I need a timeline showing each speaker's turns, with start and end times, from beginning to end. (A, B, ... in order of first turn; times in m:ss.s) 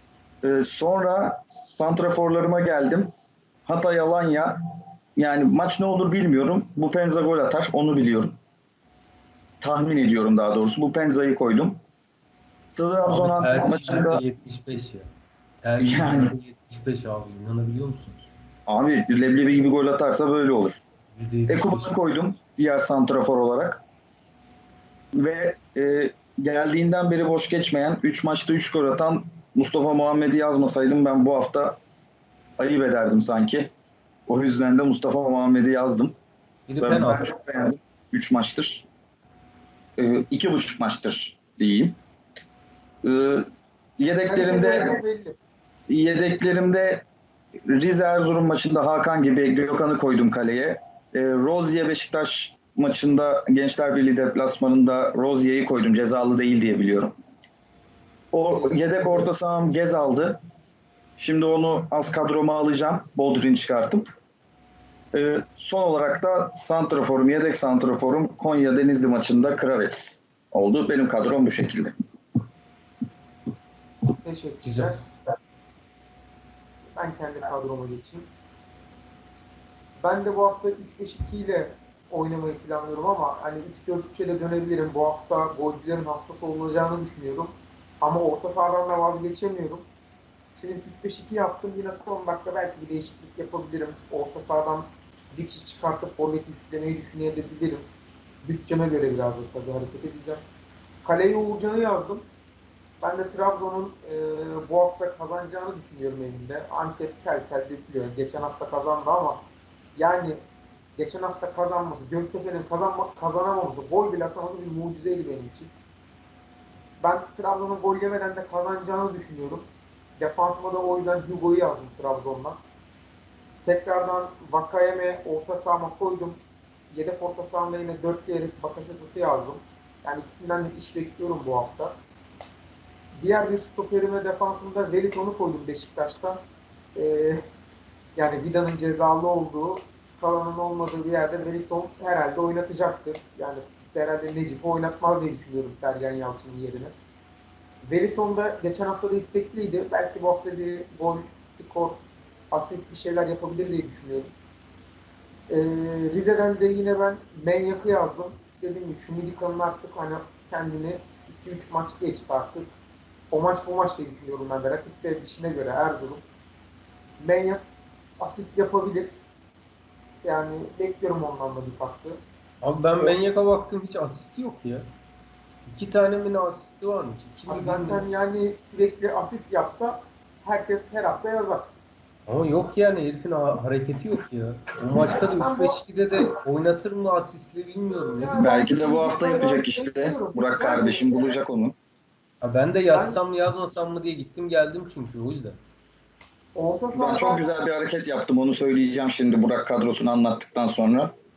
0:00.4-0:03.1 A
0:03.7-0:04.6 A
0:05.2-0:08.4 A
0:09.6-0:11.8 A
0:12.8-0:14.2 A
0:13.0-0:15.1 B
0:15.6-0:18.3 B
0:15.8-0:16.3 A
0:18.7-0:20.8 A
0:21.1-0:22.0 B
0:21.5-0:23.8 A
0:25.2-0:31.8 A
0:32.6-0:33.7 A
0:34.3-0:36.1 A
0:36.7-0:37.3 B
0:36.8-0:38.9 A
0:40.0-0:42.0 A
0:43.0-0:45.0 A
0:44.3-0:45.4 C
0:45.9-0:47.0 A
0:47.7-0:57.1 A
0:58.3-1:00.4 A
1:01.2-1:04.1 A
1:05.1-1:12.0 A
1:14.2-1:15.1 C
1:14.6-1:15.0 B
1:16.9-1:18.3 C
1:20.0-1:29.8 C
1:30.6-1:37.8 C
1:38.4-1:40.4 C
1:41.0-1:42.2 C
1:43.0-1:49.4 C
1:50.0-1:50.4 C
1:51.0-1:55.7 C
1:57.0-1:59.6 C
2:00.2-2:02.6 C
2:03.6-2:06.4 C
2:06.9-2:11.9 C
2:13.2-2:16.4 C
2:17.0-2:17.4 C
2:18.2-2:26.9 C
2:27.8-2:32.0 C
2:32.5-2:34.3 C
2:35.5-2:42.7 C
2:43.3-2:46.2 C
2:47.2-2:47.6 C
2:48.2-2:49.2 C
2:50.2-2:52.2 C
2:52.6-2:54.9 B
2:55.7-2:58.0 B
2:57.5-3:01.7 C
3:02.3-3:08.5 B
3:05.1-3:05.8 C
3:08.2-3:11.1 C
3:08.4-3:11.8 A
3:12.4-3:15.6 B
3:12.9-3:13.2 C
3:16.6-3:17.4 C
3:16.9-3:21.1 A